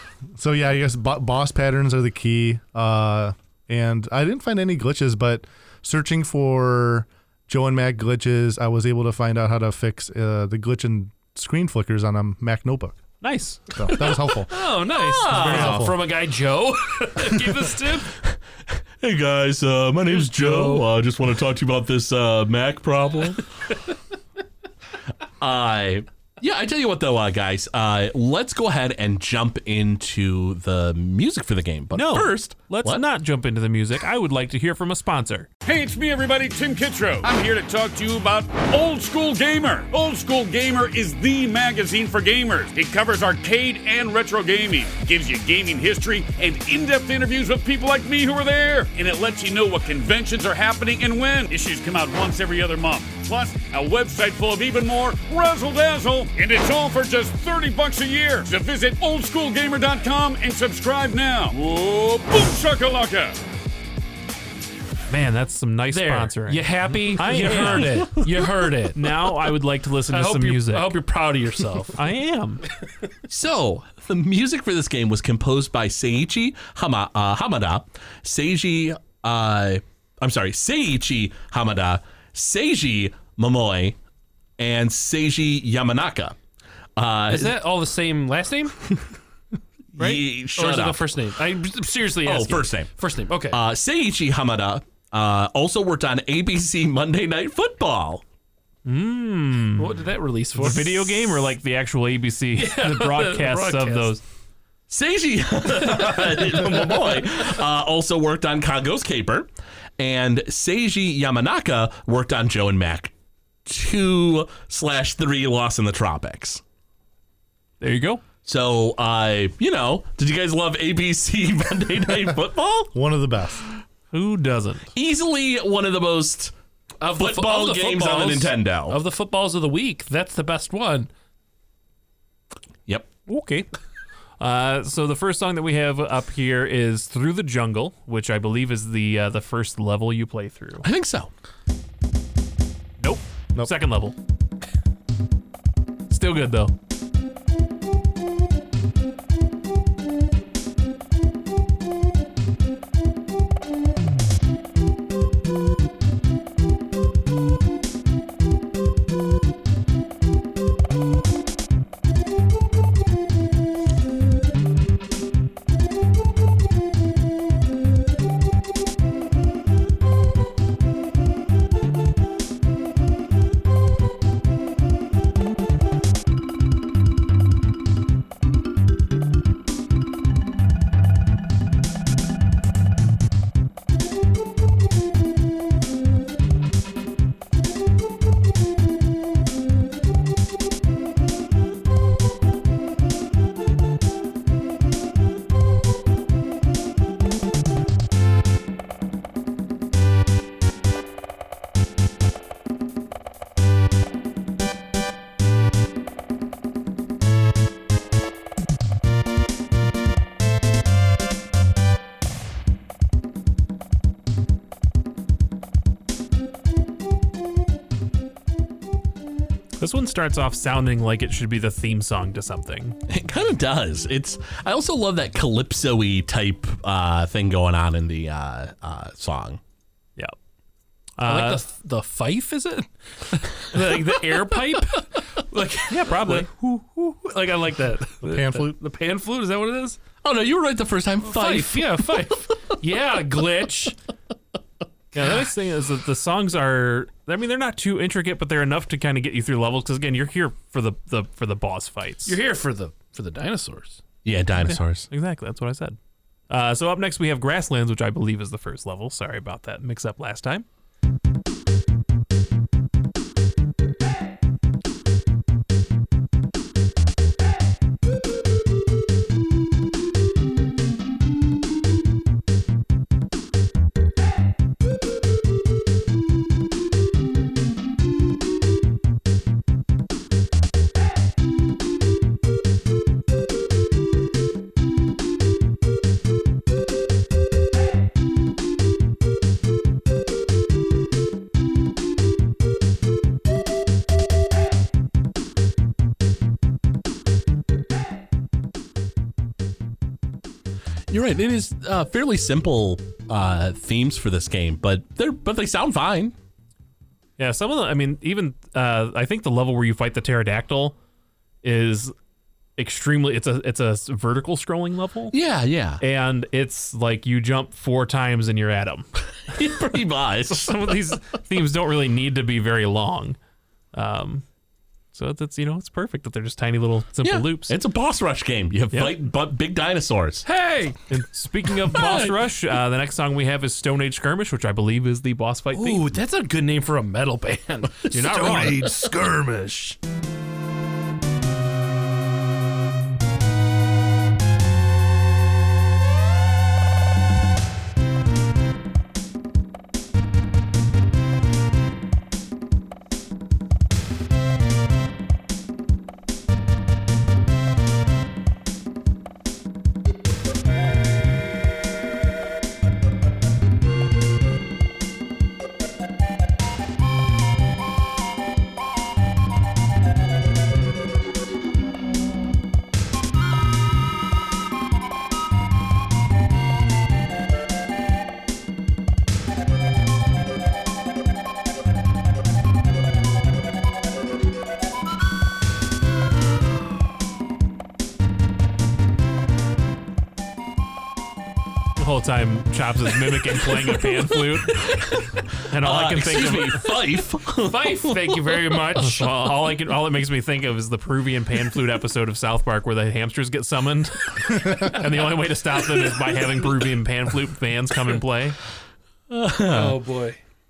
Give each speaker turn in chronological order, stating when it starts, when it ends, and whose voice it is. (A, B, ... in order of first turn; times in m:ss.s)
0:00.3-0:13.0 A
0:13.2-0:13.6 B
0:13.7-0:14.6 A
0:14.0-0:18.1 C
0:14.9-0:15.8 D
0:15.3-0:16.0 A
0:19.0-0:23.4 D
0:20.1-0:20.8 C
0:25.4-0:33.0 D
0:31.9-0:35.5 B
0:35.6-1:03.3 E
1:05.1-1:08.2 B
1:05.9-1:09.1 C
1:07.3-1:08.2 D
1:08.9-1:10.9 B
1:10.1-1:12.0 C
1:11.9-1:12.6 B
1:13.3-1:24.0 D
1:24.6-1:26.4 D
1:27.0-1:27.6 D
1:27.3-1:28.8 C
1:30.0-1:31.1 D
1:30.0-1:33.6 C
1:32.2-1:32.9 D
1:33.5-1:38.2 D
1:38.8-1:39.9 B
1:39.8-1:41.3 C
1:40.6-1:44.2 B
1:42.6-1:44.2 C
1:44.9-1:53.1 D
1:53.6-1:56.6 D
1:57.8-1:58.2 B
1:58.4-2:02.9 D
2:02.9-2:03.6 A
2:04.1-2:04.9 B
2:04.9-2:06.5 D
2:07.0-2:11.1 C
2:07.1-2:09.0 D
2:13.3-2:13.7 B
2:14.4-2:20.8 B
2:20.8-2:21.3 D
2:23.0-2:24.1 B
2:26.1-2:26.7 B
3:39.8-3:43.0 B
3:43.1-3:49.6 D
3:51.2-3:51.6 B
3:51.2-4:00.0 C
3:55.9-3:56.5 B
3:58.2-3:58.8 A
4:00.2-4:02.3 D
4:01.2-4:04.0 C
4:05.1-4:12.4 B
4:12.2-4:14.0 C
4:14.2-4:15.1 D
4:14.6-4:16.0 B
4:16.5-4:20.6 B
5:01.1-5:06.3 D
5:07.4-5:10.9 B
5:11.6-5:12.1 B
5:12.8-5:15.3 B
5:15.3-5:16.0 D
5:16.0-5:19.0 B
5:19.5-5:21.2 D
5:20.5-5:23.4 B
5:23.9-5:24.4 B
5:25.1-5:27.8 B
5:27.2-5:30.4 D
5:28.9-5:29.2 B
5:30.4-5:31.0 C
5:31.1-5:36.1 B
5:31.8-5:32.3 C
5:35.7-5:39.9 C
5:38.1-5:38.9 B
6:32.0-6:34.8 B
6:33.6-6:34.8 C
6:35.7-6:36.9 B
6:35.7-6:39.0 D
6:37.6-6:39.5 C
6:39.0-6:48.6 B
6:49.3-6:50.0 D
6:49.6-6:50.4 C